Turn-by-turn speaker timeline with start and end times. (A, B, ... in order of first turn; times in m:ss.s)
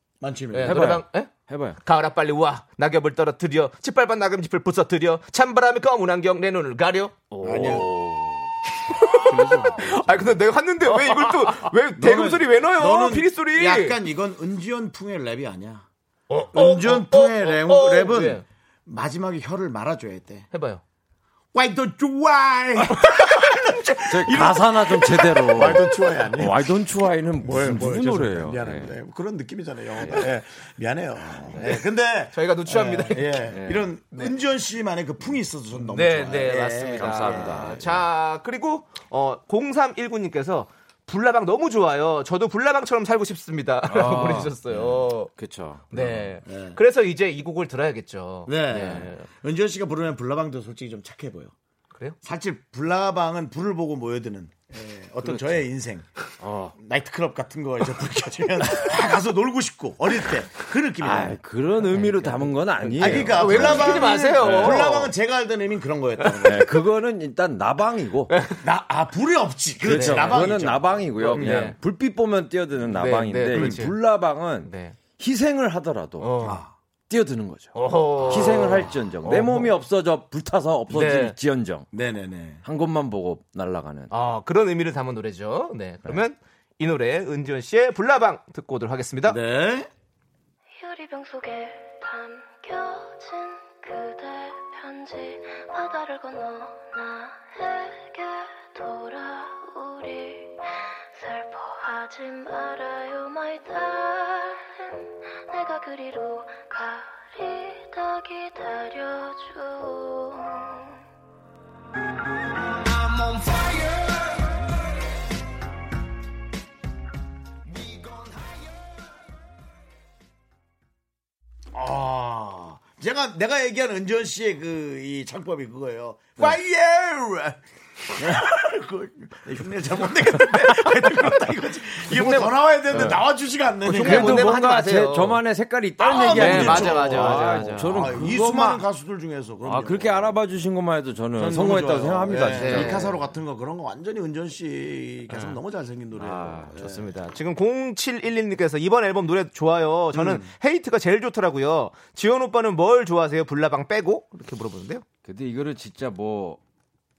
0:00.2-0:01.0 A
0:00.5-0:07.1 B
0:00.6-0:01.8 C
0:07.3-0:08.5 C
0:07.4-0:07.9 A
0:08.9-0:14.0 B
0:09.2-0:10.4 C
0:09.2-0:09.9 A
0:12.0-0:15.9 A
0:16.3-0:18.4 B
0:16.5-0:20.5 A
0:20.5-0:20.8 B
0:21.5-0:26.8 A
0:24.1-0:28.9 C
0:27.4-0:37.8 A
0:30.0-0:30.2 C
0:31.4-0:31.7 C
0:32.3-0:33.5 B
0:33.5-0:33.9 C
0:35.9-0:45.3 B
0:37.0-0:38.0 C
0:43.8-0:46.4 C
0:45.9-0:49.3 B
0:46.4-0:46.8 A
0:48.4-0:51.5 A
0:52.2-0:56.1 A
0:56.4-0:56.7 C
0:56.8-1:01.4 A
1:01.0-1:05.0 C
1:01.9-1:05.1 B
1:03.0-1:06.8 A
1:06.4-1:08.3 C
1:08.3-1:08.6 B
1:08.6-1:11.7 A
1:09.8-1:16.4 C
1:09.8-1:10.5 B
1:11.1-1:11.8 B
1:12.9-1:14.0 B
1:13.5-1:13.8 A
1:14.6-1:15.0 B
1:16.2-1:16.6 B
1:16.4-1:16.7 A
1:17.1-1:21.9 C
1:17.7-1:19.7 B
1:18.2-1:19.0 A
1:20.9-1:21.4 B
1:21.9-1:22.6 A
1:22.6-1:24.1 C
1:24.1-1:29.4 B
1:29.2-1:29.9 A
1:30.8-1:40.5 D
1:41.1-1:50.9 D
2:01.7-2:07.6 A
2:08.1-2:14.5 A
2:12.1-2:13.2 C
2:13.8-2:15.4 B
2:13.8-2:18.8 C
2:16.0-2:20.3 A
2:16.2-2:18.2 B
2:19.6-2:23.1 C
2:21.4-2:27.1 A
2:22.5-2:23.1 B
2:25.3-2:25.6 B
2:26.2-2:26.8 C
2:26.8-2:35.0 B
2:30.1-2:30.5 A
2:35.2-2:36.6 C